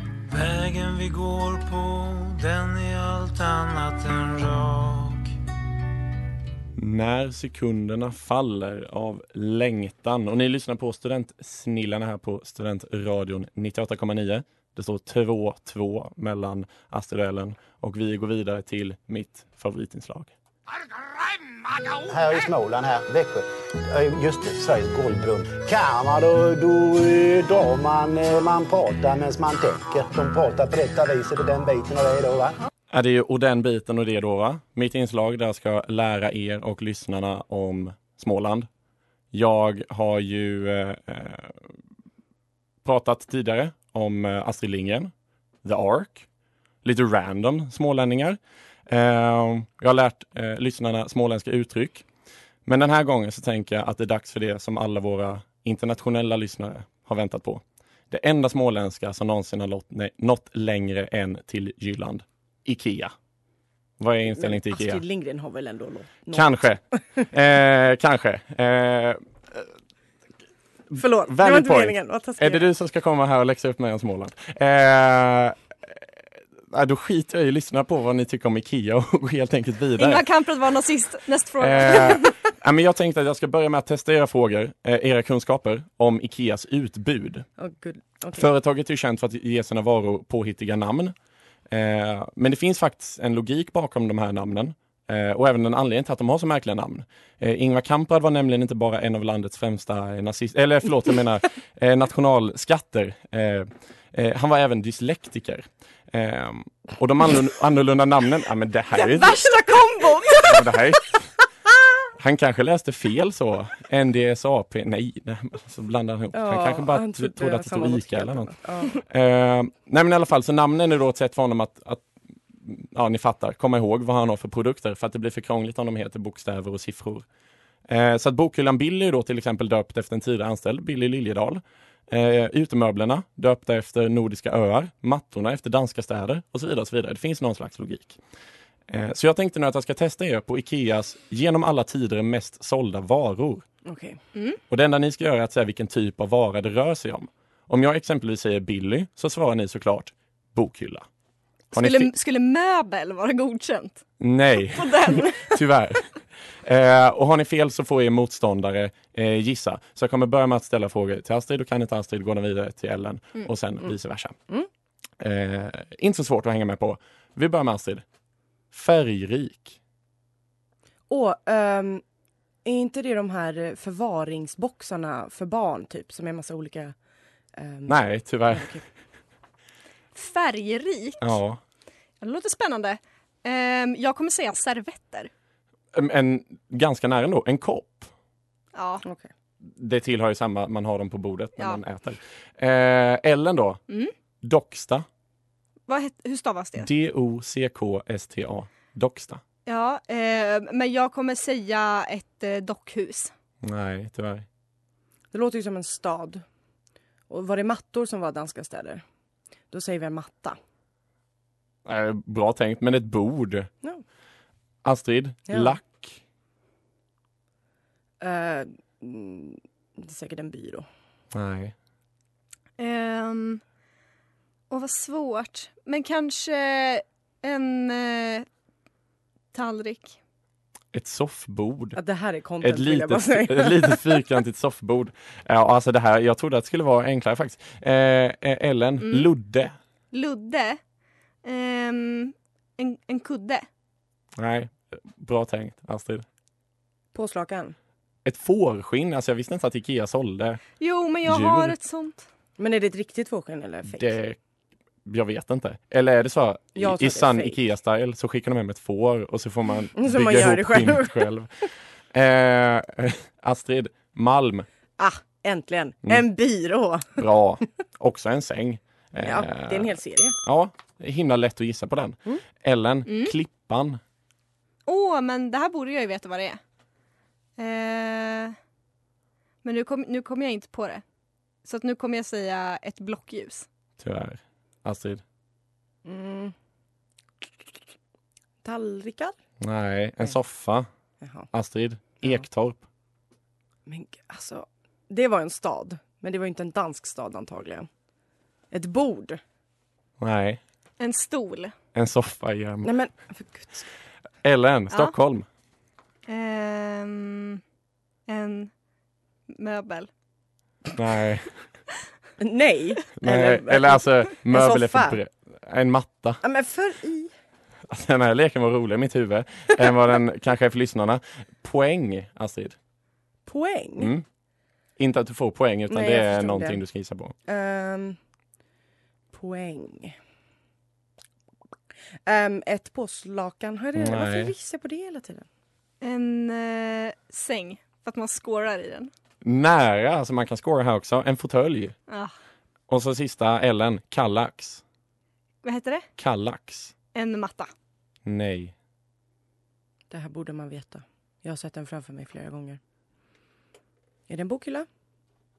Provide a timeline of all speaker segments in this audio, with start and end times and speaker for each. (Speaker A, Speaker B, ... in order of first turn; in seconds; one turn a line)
Speaker A: 0.3-5.3
Speaker B: 6.8-20.3
Speaker C: 22.0-32.6
Speaker B: 32.9-38.7
Speaker B: 39.3-41.7
Speaker B: 42.8-45.1
Speaker B: 45.6-46.3
Speaker B: 46.8-52.1
Speaker B: 52.7-63.1
Speaker B: 64.0-65.0
Speaker D: 64.3-67.2
Speaker B: 66.3-69.7
Speaker B: 70.9-76.0
Speaker D: 71.0-72.7
Speaker B: 76.7-80.2
Speaker E: 80.0-82.3
Speaker B: 81.6-87.5
Speaker D: 87.6-88.5
Speaker B: 88.4-91.1
Speaker B: 91.7-109.4
Speaker D: 108.9-111.0
Speaker B: 110.5-111.3
Speaker B: 112.2-127.3
Speaker D: 116.3-119.0
Speaker B: 127.9-138.2
Speaker B: 138.9-143.6
Speaker D: 143.8-144.2
Speaker E: 144.3-144.6
Speaker B: 144.7-151.1
Speaker B: 151.7-152.1
Speaker E: 151.7-154.1
Speaker B: 154.2-156.1
Speaker E: 154.8-155.3
Speaker B: 156.6-164.4
Speaker B: 165.2-168.0
Speaker B: 168.7-169.8
Speaker D: 171.1-172.0
Speaker D: 172.7-177.0
Speaker D: 177.6-178.8
Speaker B: 177.9-178.8
Speaker E: 180.2-181.4
Speaker B: 181.2-181.6
Speaker E: 182.2-185.3
Speaker B: 185.9-188.1
Speaker E: 188.7-189.0
Speaker D: 189.0-189.3
Speaker B: 189.6-193.8
Speaker B: 194.4-195.1
Speaker E: 195.9-196.9
Speaker B: 196.8-199.4
Speaker E: 199.7-203.3
Speaker B: 203.6-204.5
Speaker D: 205.3-206.4
Speaker D: 207.3-209.0
Speaker D: 209.7-210.6
Speaker B: 211.8-213.7
Speaker B: 214.8-216.2
Speaker D: 215.5-215.8
Speaker D: 218.2-220.9
Speaker B: 221.3-221.7
Speaker E: 222.8-223.6
Speaker E: 224.7-228.5
Speaker E: 229.5-230.2
Speaker B: 230.9-232.0
Speaker D: 231.9-234.1
Speaker B: 232.6-239.8
Speaker E: 239.0-239.3
Speaker E: 240.1-240.8
Speaker E: 241.4-243.7
Speaker B: 244.4-246.2
Speaker D: 247.1-247.8
Speaker B: 248.2-250.6
Speaker E: 250.8-252.3
Speaker B: 251.2-251.7
Speaker D: 252.6-254.1
Speaker B: 253.9-254.4
Speaker B: 255.1-264.7
Speaker D: 256.8-257.6
Speaker D: 260.0-261.3
Speaker D: 265.0-267.2
Speaker B: 267.2-274.0
Speaker D: 269.2-270.4
Speaker E: 273.1-273.3
Speaker E: 274.9-276.6
Speaker E: 277.6-278.6
Speaker E: 279.6-281.0
Speaker E: 281.6-283.7
Speaker B: 284.0-285.2
Speaker D: 286.1-286.5
Speaker D: 288.6-289.4
Speaker B: 289.6-290.9
Speaker D: 291.2-291.5
Speaker B: 291.5-292.8
Speaker D: 293.9-297.9
Speaker D: 298.7-299.4
Speaker B: 300.2-300.6
Speaker E: 301.0-301.8
Speaker B: 301.9-303.0
Speaker D: 302.8-303.9
Speaker B: 304.4-305.4
Speaker E: 306.3-307.6
Speaker E: 308.3-308.7
Speaker E: 309.5-310.1
Speaker B: 310.9-311.6
Speaker D: 312.4-315.2
Speaker B: 313.2-316.4
Speaker D: 316.4-317.3
Speaker B: 317.9-322.8
Speaker D: 323.5-324.1
Speaker B: 324.0-324.2
Speaker B: 325.0-327.3
Speaker D: 325.9-326.8
Speaker D: 327.5-328.2
Speaker D: 329.3-330.2
Speaker D: 332.3-335.5
Speaker B: 333.9-334.5
Speaker E: 336.0-339.1
Speaker B: 339.4-341.9
Speaker E: 342.1-342.3
Speaker B: 342.9-344.8
Speaker E: 345.6-346.1
Speaker B: 346.2-346.9
Speaker E: 347.1-347.7
Speaker B: 348.3-348.7
Speaker D: 350.1-352.8
Speaker D: 354.3-354.9